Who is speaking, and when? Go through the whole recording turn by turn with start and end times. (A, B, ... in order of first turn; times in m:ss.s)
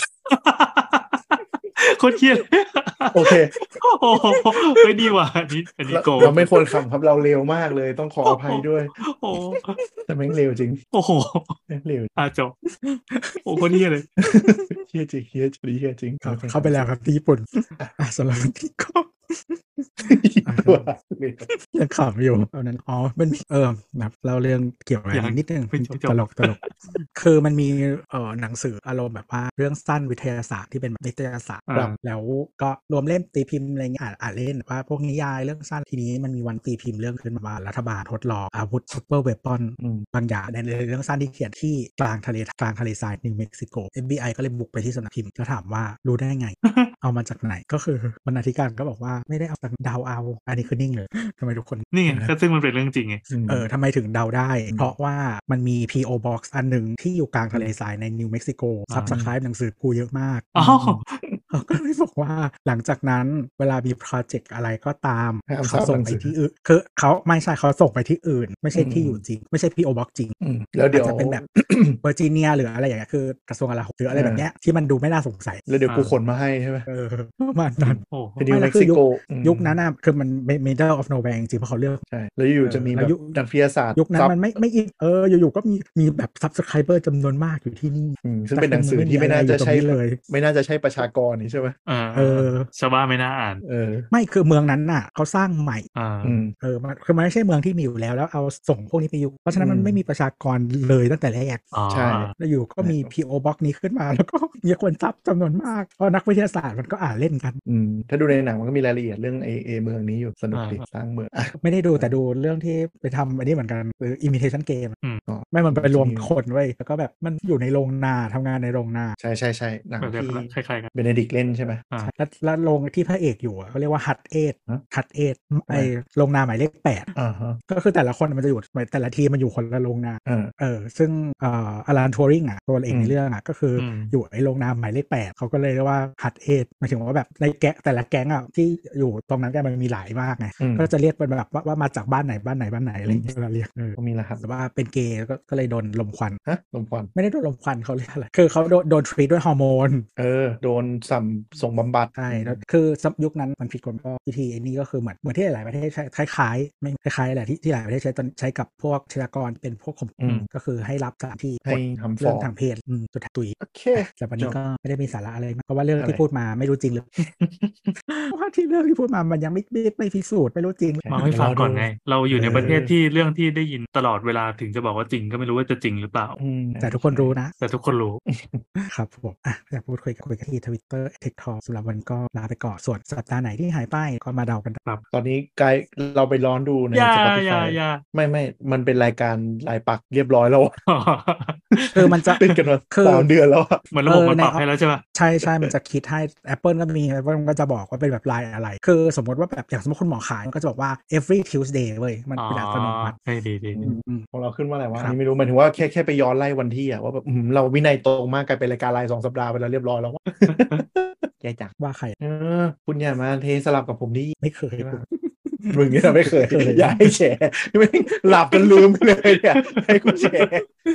0:00.3-0:06.4 A
0:03.1-0:03.5 B
0:04.2-0:04.4 C
0:05.9-0:08.9 B
0:06.2-0:06.4 C
0:08.2-0:09.8 A
0:10.1-0:10.8 B
0:10.9-0:11.6 A
0:11.7-0:12.1 B
0:12.2-0:12.5 A
0:12.8-0:13.7 C
0:13.4-0:14.1 A
0:14.2-0:16.9 B
0:14.2-0:14.8 C
0:16.2-0:20.9 C
0:20.1-0:21.5 B
0:21.5-0:51.9 C
0:25.1-0:26.7 A
0:31.7-0:32.0 A
0:39.8-0:40.0 B
0:46.6-0:46.9 A
0:51.9-0:53.2 A
0:52.1-0:52.3 B
0:53.3-0:53.7 B
0:53.5-1:00.5 C
0:54.7-0:54.9 B
0:58.9-0:59.2 A
1:00.5-1:01.0 A
1:00.6-1:01.8 B
1:01.5-1:10.4 C
1:05.5-1:06.3 B
1:08.7-1:09.2 B
1:10.4-1:12.0 B
1:10.9-1:11.5 C
1:12.0-1:15.6 C
1:14.1-1:14.4 B
1:15.7-1:16.8 B
1:15.9-1:16.1 A
1:16.9-1:22.0 C
1:17.8-1:19.8 B
1:18.1-1:18.4 A
1:22.1-1:24.6 B
1:22.6-1:23.4 C
1:23.9-1:30.2 C
1:28.2-1:31.8 B
1:31.9-1:33.6 A
1:32.1-1:32.7 C
1:33.6-1:34.1 B
1:34.1-1:35.9 C
1:35.9-1:36.4 A
1:36.2-1:36.5 B
1:36.6-1:41.7 C
1:39.5-1:40.0 B
1:41.7-1:42.3 A
1:41.9-1:43.1 B
1:42.4-1:47.6 C
1:47.6-1:52.1 B
1:50.5-1:50.8 A
1:51.6-1:55.0 C
1:55.3-1:56.3 B
1:55.5-1:59.2 C
1:59.2-2:01.8 B
2:00.0-2:00.9 A
2:02.0-2:07.1 C
2:07.1-2:07.6 B
2:07.7-2:26.4 C
2:10.2-2:10.5 B
2:12.9-2:13.1 B
2:13.8-2:14.1 B
2:20.6-2:20.9 B
2:23.8-2:24.4 B
2:26.4-2:27.1 B
2:27.1-2:30.0 C
2:30.2-2:32.6 B
2:32.1-2:47.3 C
2:40.2-2:40.5 B
2:41.6-2:42.5 B
2:43.6-2:44.6 B
2:48.1-2:51.3 C
2:51.0-2:52.9 B
2:51.1-2:56.4 A
2:56.4-2:57.4 B
2:56.8-2:57.5 C
2:57.6-2:58.2 A
2:58.3-2:58.6 B
2:58.8-3:04.8 C
3:05.1-3:10.8 B
3:06.9-3:08.0 A
3:10.9-3:12.6 A
3:11.8-3:13.8 B
3:11.9-3:13.3 C
3:13.9-3:15.0 A
3:14.0-3:23.2 C
3:22.4-3:23.8 A
3:23.8-3:35.0 B
3:23.8-3:24.2 C
3:30.4-3:30.8 A
3:31.8-3:32.2 C
3:34.4-3:37.0 C
3:35.7-3:40.6 B
3:39.6-3:40.5 A